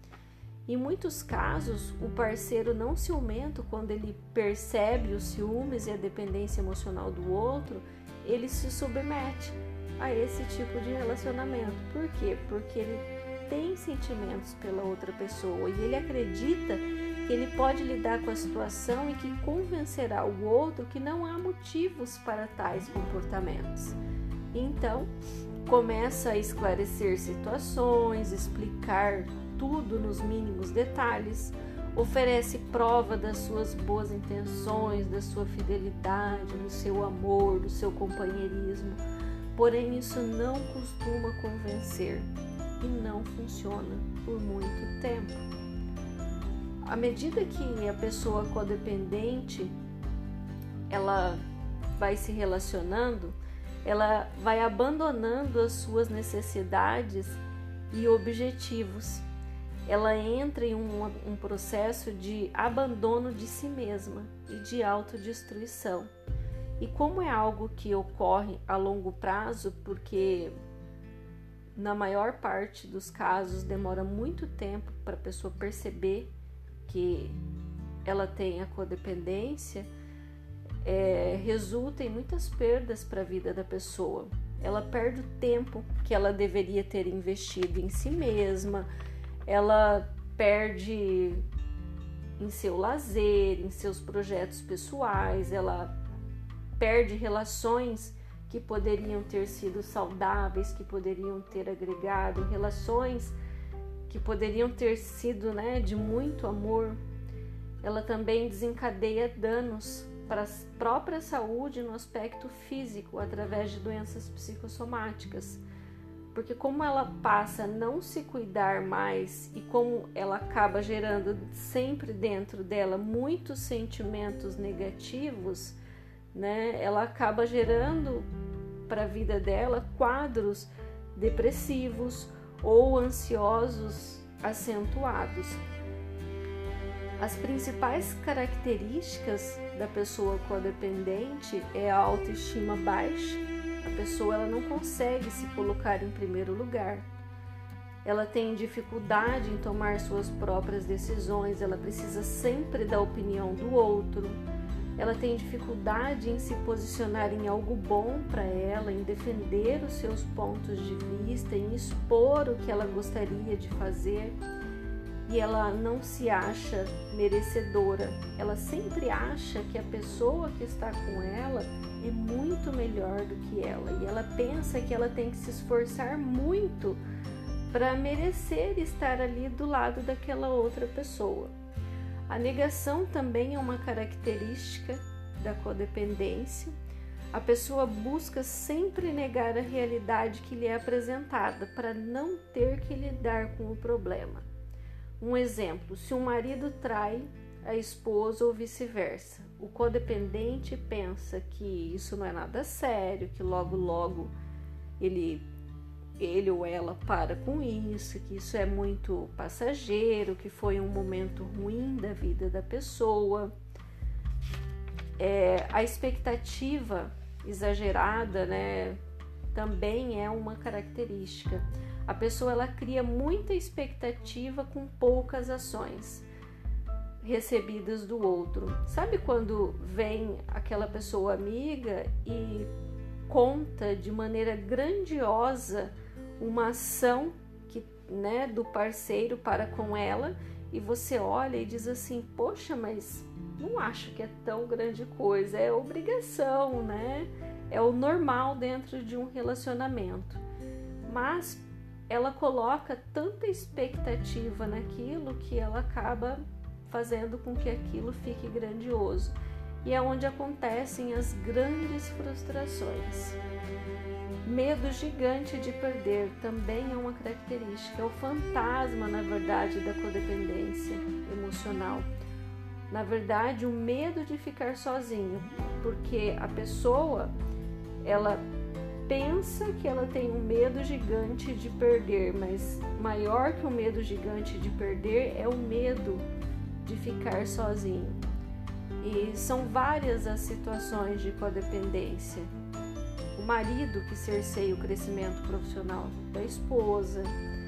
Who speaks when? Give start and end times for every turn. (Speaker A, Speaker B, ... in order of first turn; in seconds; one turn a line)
Speaker A: 0.7-24.0
Speaker A: 24.5-25.1
Speaker A: 25.6-39.0
Speaker A: 39.5-42.3
Speaker A: 42.8-45.5
Speaker A: 46.9-49.7
Speaker A: 50.9-51.4
Speaker A: 52.0-59.3
Speaker A: 59.9-66.1
Speaker A: 66.8-70.5
Speaker A: 71.8-76.3
Speaker A: 76.8-77.4
Speaker A: 78.0-79.9
Speaker A: 80.8-88.9
Speaker A: 89.5-91.4
Speaker A: 92.4-95.9
Speaker A: 96.8-103.4
Speaker A: 104.1-107.0
Speaker A: 107.8-115.6
Speaker A: 116.3-125.8
Speaker A: 126.3-128.3
Speaker A: 128.9-135.6
Speaker A: 137.2-147.1
Speaker A: 148.0-154.4
Speaker A: 155.0-164.4
Speaker A: 165.3-177.0
Speaker A: 177.7-181.5
Speaker A: 182.3-186.7
Speaker A: 187.3-194.4
Speaker A: 195.2-204.3
Speaker A: 205.0-205.4
Speaker A: 206.2-213.5
Speaker A: 215.2-219.0
Speaker A: 219.5-226.2
Speaker A: 227.2-232.7
Speaker A: 233.3-250.4
Speaker A: 251.1-263.4
Speaker A: 264.4-272.1
Speaker A: 272.9-277.3
Speaker A: 278.0-278.4
Speaker A: 279.1-286.2
Speaker A: 286.8-288.2
Speaker A: 289.0-292.5
Speaker A: 293.3-297.3